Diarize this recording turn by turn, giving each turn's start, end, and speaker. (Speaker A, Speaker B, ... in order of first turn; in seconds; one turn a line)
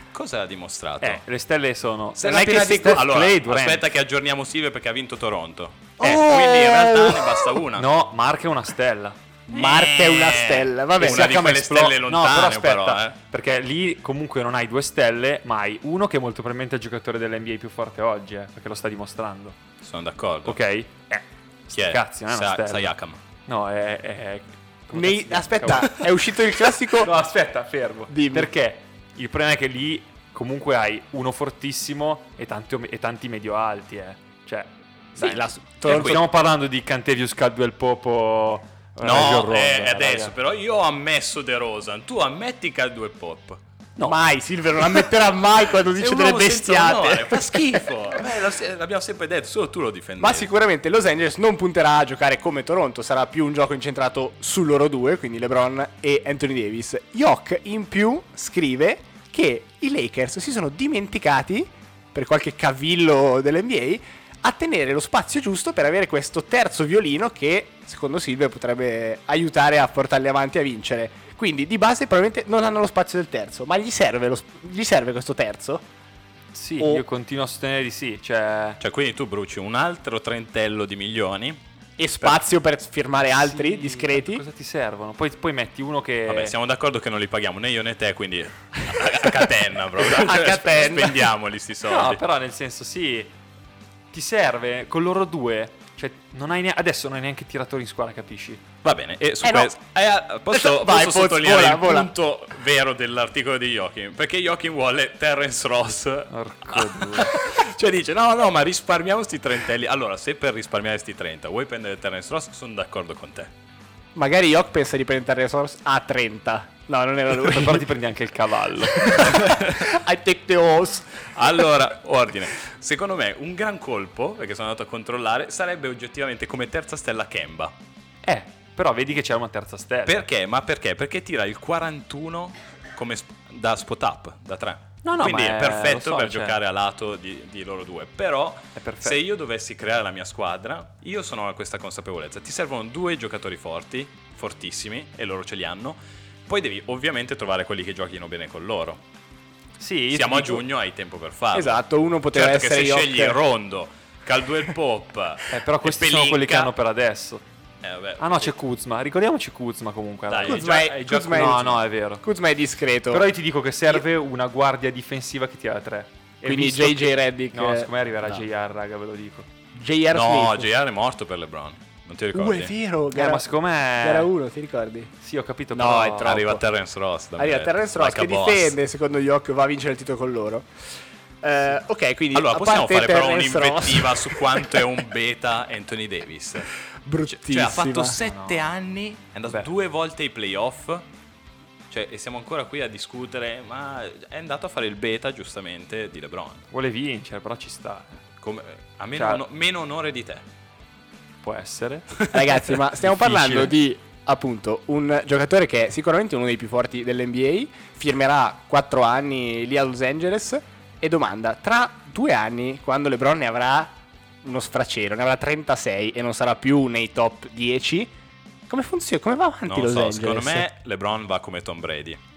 Speaker A: 0.1-1.2
Speaker B: 1.0-3.9
Speaker A: 2.2-7.9
Speaker C: 2.4-3.0
Speaker C: 6.0-7.5
Speaker B: 7.8-9.2
Speaker C: 9.5-11.5
Speaker A: 9.5-13.2
Speaker B: 11.0-19.6
Speaker A: 19.8-20.6
Speaker B: 20.5-22.9
Speaker A: 21.7-23.2
Speaker B: 23.5-26.0
Speaker C: 24.9-27.1
Speaker B: 27.0-40.3
Speaker C: 28.1-28.5
Speaker C: 35.2-36.2
Speaker A: 35.9-36.2
Speaker A: 39.0-43.6
Speaker C: 44.0-48.2
Speaker A: 45.9-50.5
Speaker C: 50.2-75.9
Speaker B: 76.5-78.8
Speaker C: 76.8-77.0
Speaker A: 78.8-81.6
Speaker C: 82.0-84.4
Speaker B: 83.3-86.5
Speaker A: 86.3-92.2
Speaker C: 90.0-91.3
Speaker B: 91.9-93.3
Speaker B: 94.1-98.6
Speaker A: 98.8-113.5
Speaker C: 99.4-99.7
Speaker C: 100.5-102.1
Speaker B: 106.3-107.6
Speaker C: 114.2-117.9
Speaker B: 117.4-119.3
Speaker C: 118.9-121.7
Speaker A: 119.2-119.9
Speaker A: 121.3-127.7
Speaker B: 128.2-130.3
Speaker A: 130.1-149.0
Speaker B: 135.1-136.6
Speaker B: 138.8-139.2
Speaker B: 149.8-150.7
Speaker A: 150.1-151.8
Speaker C: 151.5-153.4
Speaker A: 152.3-156.7
Speaker B: 155.5-157.4
Speaker A: 157.8-158.6
Speaker B: 158.2-162.2
Speaker A: 160.3-161.8
Speaker C: 160.5-161.7
Speaker C: 162.2-163.3
Speaker B: 163.1-169.5
Speaker C: 166.5-168.4
Speaker C: 169.7-170.7
Speaker A: 170.1-172.7
Speaker C: 172.3-173.4
Speaker B: 173.1-174.3
Speaker C: 174.0-175.1
Speaker B: 175.2-176.6
Speaker C: 175.7-176.6
Speaker A: 176.2-178.8
Speaker C: 177.4-180.7
Speaker C: 181.4-184.9
Speaker A: 182.3-186.7
Speaker C: 187.1-188.2
Speaker A: 187.3-191.1
Speaker B: 188.2-188.7
Speaker A: 191.9-196.7
Speaker B: 196.7-198.2
Speaker A: 198.4-200.4
Speaker B: 199.2-199.4
Speaker B: 201.4-202.3
Speaker A: 202.2-202.5
Speaker C: 202.3-218.1
Speaker B: 203.0-203.8
Speaker C: 218.7-220.7
Speaker A: 219.7-222.2